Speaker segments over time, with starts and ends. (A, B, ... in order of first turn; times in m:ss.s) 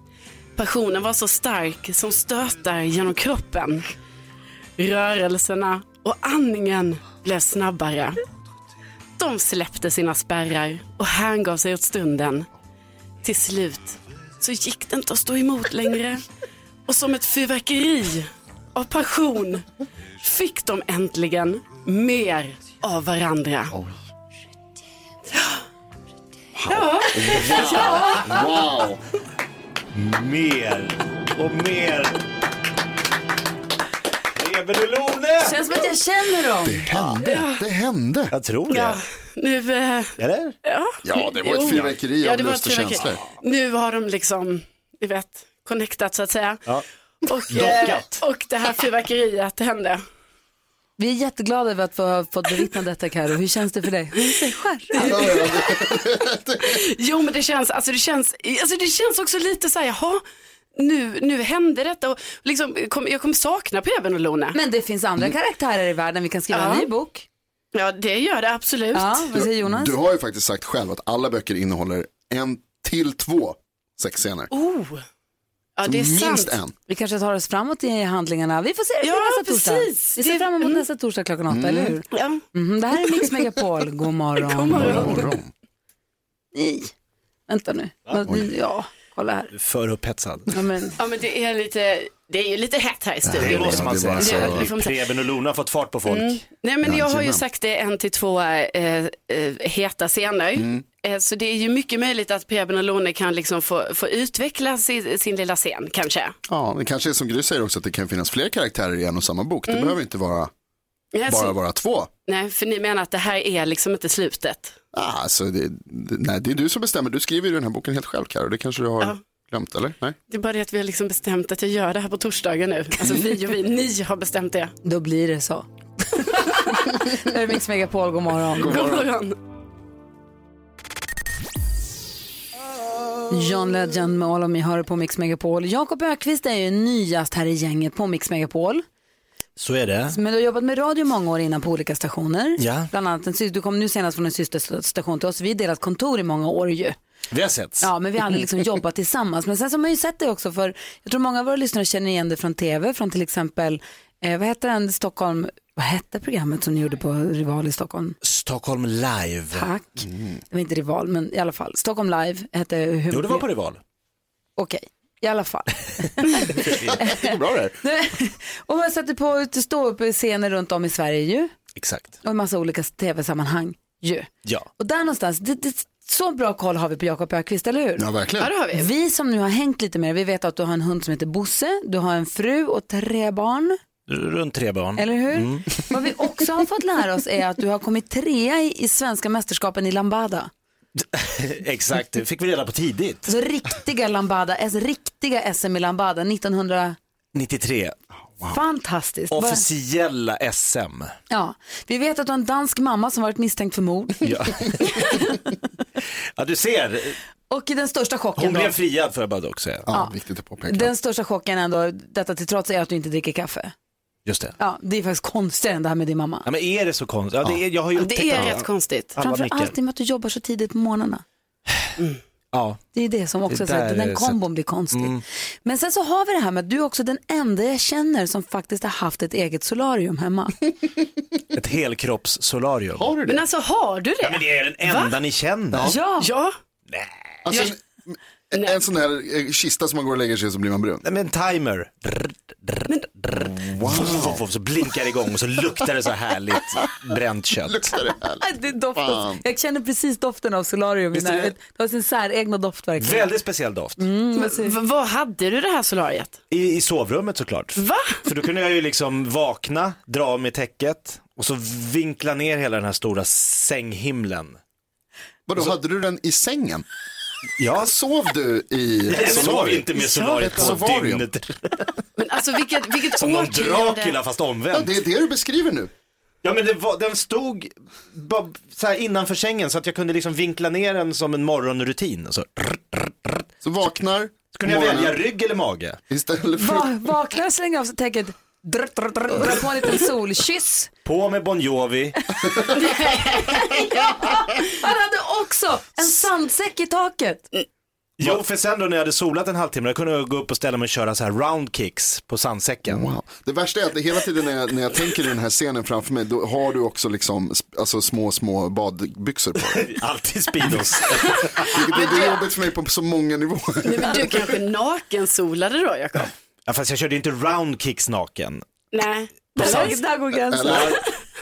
0:00.6-0:03.9 A
0:04.8-0:08.2 A
0:09.2-0:12.5 A
0:13.2-0:16.2 A
0:16.9-0:19.7 A
0:20.2-0:23.7 A
0:23.7-0:24.0 B
0:25.3-0:25.6 A
0:26.6-0:29.0 B
0:26.7-0:28.4 A
0:29.9-0:32.2 C
0:34.4-0:35.6 C
0:35.4-0:36.9 D
0:36.6-0:38.3 B
0:37.2-0:37.6 A
0:38.3-0:39.0 C
0:38.7-0:46.6 A
0:40.2-0:40.6 C
0:41.0-0:43.2 B
0:47.3-0:50.0 A
0:47.5-0:48.2 C
0:51.0-0:55.3 D
0:55.0-0:55.6 A
0:55.0-0:56.8 B
0:56.6-1:00.2 A
1:00.7-1:04.6 A
1:04.5-1:07.2 D
1:06.5-1:06.9 A
1:07.7-1:09.3 A
1:08.9-1:10.0 D
1:09.4-1:14.5 B
1:14.5-1:15.0 A
1:15.8-1:16.6 A
1:15.9-1:16.7 B
1:16.9-1:25.2 D
1:19.0-1:20.8 A
1:21.5-1:22.0 B
1:22.1-1:22.4 A
1:24.4-1:25.2 A
1:24.7-1:25.5 B
1:26.5-1:26.9 D
1:27.5-1:29.5 D
1:29.5-1:30.5 C
1:30.5-1:31.0 D
1:31.0-1:35.1 A
1:33.3-1:34.7 B
1:33.4-1:36.4 C
1:36.1-1:46.4 A
1:36.8-1:37.4 B
1:40.6-1:40.8 B
1:46.5-1:50.5 B
1:49.7-1:50.0 A
1:51.1-1:51.6 A
1:51.3-1:52.1 B
1:52.3-1:54.8 A
1:54.9-2:00.2 B
2:00.3-2:04.7 A
2:04.8-2:08.9 D
2:08.6-2:09.4 A
2:13.3-2:18.8 D
2:19.6-2:20.2 C
2:20.1-2:27.0 D
2:22.6-2:22.9 C
2:27.3-2:27.9 C
2:27.8-2:38.2 D
2:38.2-2:39.7 C
2:39.5-2:43.5 D
2:43.1-2:43.8 C
2:44.6-2:51.5 D
2:46.4-2:47.5 C
2:47.2-2:47.7 B
2:51.8-2:52.1 C
2:52.2-2:58.1 D
2:58.0-2:58.5 B
2:58.4-2:58.9 A
2:58.7-3:03.8 D
3:04.1-3:05.9 C
3:05.0-3:10.5 D
3:11.0-3:13.3 C
3:13.3-3:17.0 D
3:17.3-3:18.0 C
3:18.5-3:19.6 D
3:19.3-3:21.1 C
3:21.3-3:24.3 D
3:24.2-3:25.2 C
3:24.8-3:25.4 D
3:26.4-3:27.2 C
3:27.5-3:28.8 D
3:28.4-3:29.9 C
3:29.9-3:30.9 B
3:30.6-3:33.7 D
3:34.3-3:34.5 C
3:34.6-3:36.4 D
3:36.4-3:39.7 C
3:38.0-3:39.2 A
3:39.2-3:41.2 D
3:42.5-3:42.8 C
3:42.9-3:50.6 D
3:43.5-3:44.4 C
3:44.9-3:45.2 C
3:51.5-3:53.1 C
3:53.0-3:53.4 B
3:53.3-3:55.2 A
3:54.2-3:56.0 C
3:55.8-3:56.3 D
3:56.2-3:56.6 A
3:56.9-3:57.4 C
3:57.4-4:01.0 B
4:01.0-4:07.9 C
4:03.7-4:04.4 B
4:07.7-4:08.4 B
4:08.4-4:13.3 D
4:08.9-4:09.4 B
4:11.1-4:11.5 C
4:13.0-4:14.0 C
4:14.0-4:14.8 D
4:14.4-4:16.4 A
4:16.5-4:24.6 C
4:17.8-4:18.2 A
4:25.5-4:26.8 B
4:27.6-4:27.9 C
4:27.7-4:31.3 B
4:29.1-4:32.0 C
4:29.2-4:30.8 A
4:32.2-4:34.2 A
4:33.1-4:34.9 C
4:34.7-4:35.9 B
4:36.4-4:43.4 C
4:43.6-4:45.2 B
4:44.5-4:46.0 C
4:46.1-4:46.9 B
4:46.6-4:50.9 D
4:51.0-4:52.2 C
4:52.8-4:53.6 A
4:53.9-4:57.5 D
4:58.2-5:03.1 C
5:02.9-5:09.9 B
5:09.6-5:11.8 C
5:11.6-5:14.6 B
5:11.9-5:12.4 A
5:13.8-5:16.3 A
5:16.7-5:18.6 C
5:18.9-5:20.0 A
5:19.6-5:20.0 C
5:19.6-5:20.9 D
5:20.5-5:21.0 B
5:20.6-5:21.0 C